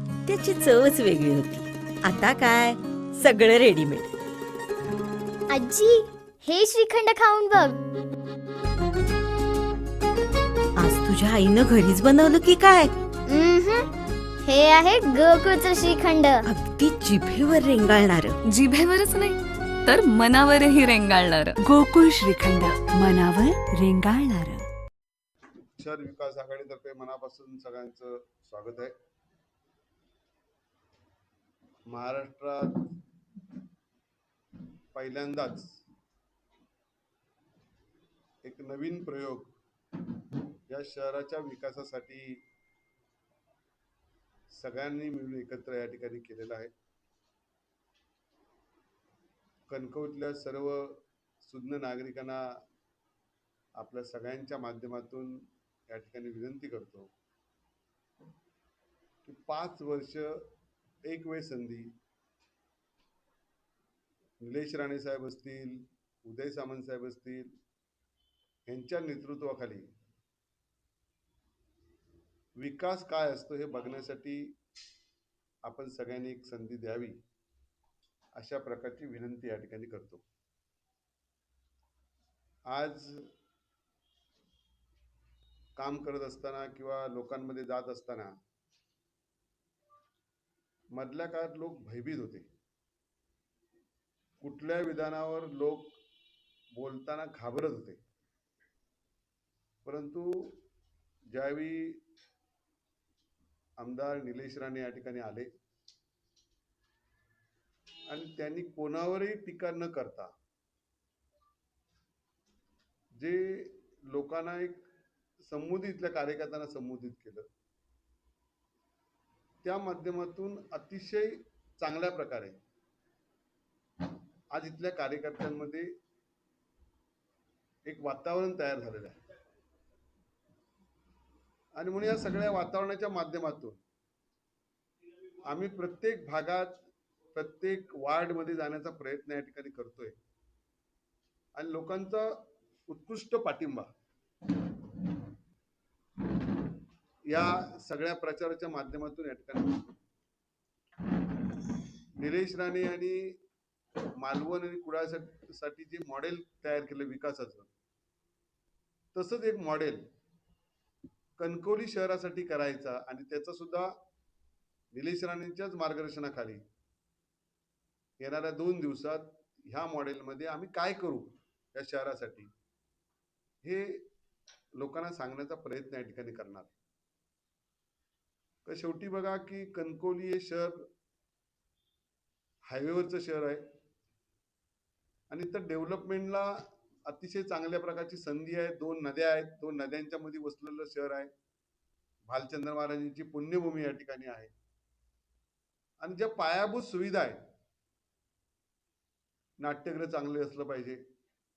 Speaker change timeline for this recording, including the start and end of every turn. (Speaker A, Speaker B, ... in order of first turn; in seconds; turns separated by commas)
Speaker A: 0.3-4.1, Speaker B: 5.5-7.8, Speaker A: 10.8-12.9, Speaker B: 13.3-13.9, Speaker B: 14.5-16.4, Speaker A: 16.5-18.4, Speaker C: 18.5-21.6, Speaker D: 21.6-24.6, Speaker E: 25.8-28.9, Speaker E: 31.9-32.9, Speaker E: 34.9-35.8, Speaker E: 38.4-39.6, Speaker E: 40.7-42.4, Speaker E: 44.5-46.7, Speaker E: 49.7-52.6, Speaker E: 53.8-57.1, Speaker E: 59.2-60.5, Speaker E: 61.0-61.9, Speaker E: 64.4-67.5, Speaker E: 68.7-69.9, Speaker E: 72.6-74.6, Speaker E: 75.6-77.2, Speaker E: 78.3-80.2, Speaker E: 82.7-83.3, Speaker E: 85.8-88.4, Speaker E: 90.9-92.5, Speaker E: 94.4-96.0, Speaker E: 96.7-98.0, Speaker E: 99.8-100.6, Speaker E: 101.3-102.0, Speaker E: 103.8-105.5, Speaker E: 108.1-110.3, Speaker E: 113.2-114.9, Speaker E: 115.4-117.5, Speaker E: 119.6-122.6, Speaker E: 124.5-125.9, Speaker E: 127.8-129.2, Speaker E: 131.8-133.8, Speaker E: 135.4-140.2, Speaker E: 141.6-143.9, Speaker E: 147.2-149.9, Speaker E: 152.2-153.4, Speaker E: 154.2-157.7, Speaker E: 159.1-160.1, Speaker E: 161.4-164.0, Speaker E: 164.9-166.6, Speaker E: 168.2-172.5, Speaker E: 173.6-174.1, Speaker E: 174.8-176.7, Speaker E: 178.7-180.9, Speaker E: 182.7-183.7, Speaker E: 185.3-191.3, Speaker E: 192.3-194.5, Speaker E: 196.0-197.5, Speaker E: 199.6-201.0